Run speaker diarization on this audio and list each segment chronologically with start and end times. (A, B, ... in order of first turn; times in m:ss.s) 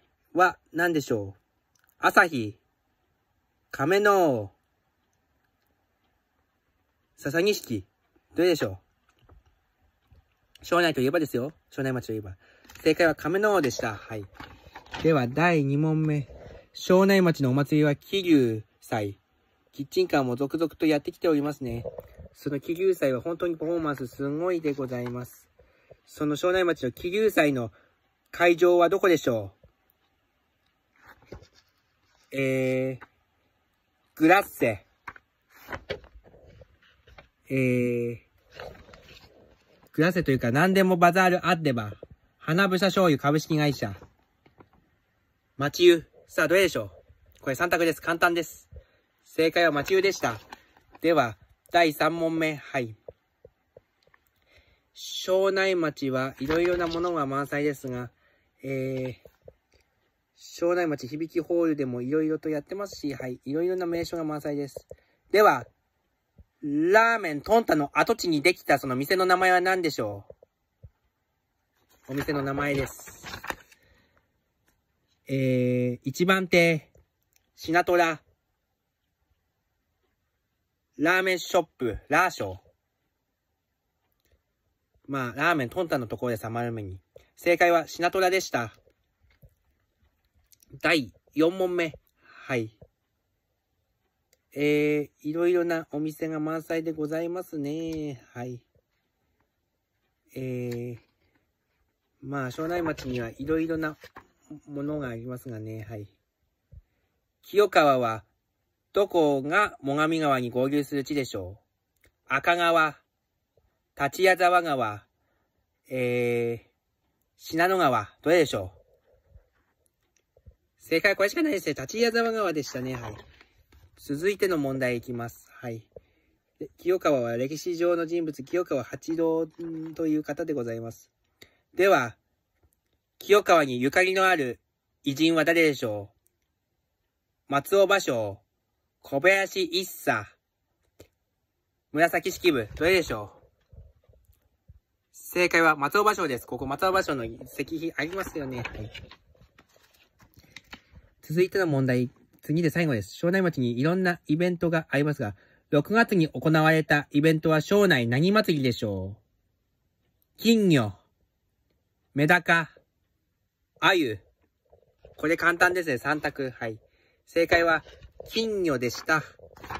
0:00.3-0:01.4 A
0:02.0-0:02.6 A
0:03.7-0:04.5 A
0:07.2-0:08.8 A
0:10.6-0:14.3 A
0:15.0-0:19.2 A
0:19.7-0:25.5 A
0:26.0-0:27.7 A
0:28.3-0:29.6 A
0:32.3-0:33.0 A
0:34.2-0:34.8 A
0:37.5-0:38.2 A
0:39.9-0:44.0 A
0:45.6-0:48.7 A
0:49.2-0:50.4 A
0:51.0-0:53.0 A
0:54.9-0:59.2 A
1:00.4-1:05.7 A
1:06.6-1:10.3 A
1:12.1-1:13.3 A
1:15.3-1:16.9 A
1:17.5-1:18.2 A
1:21.0-1:22.6 A
1:25.1-1:28.8 A
1:30.8-1:32.8 A
1:34.5-1:38.6 A
1:40.3-1:41.0 A
1:42.2-1:44.0 A
1:44.5-1:46.1 A
1:47.4-1:48.3 A
1:48.9-1:51.6 A
1:52.3-1:53.0 A
1:54.0-1:55.1 A
1:55.9-1:56.7 A
1:57.4-1:58.8 A
2:00.8-2:03.2 A
2:04.0-2:05.9 A
2:06.6-2:11.1 A
2:11.7-2:12.2 A
2:13.2-2:16.1 A
2:17.5-2:18.4 A
2:19.0-2:20.4 A
2:21.9-2:23.4 A
2:25.1-2:28.9 A
2:31.2-2:39.2 A
2:40.4-2:41.0 A
2:42.1-2:42.8 A
2:43.8-2:44.2 A
2:45.2-2:49.3 A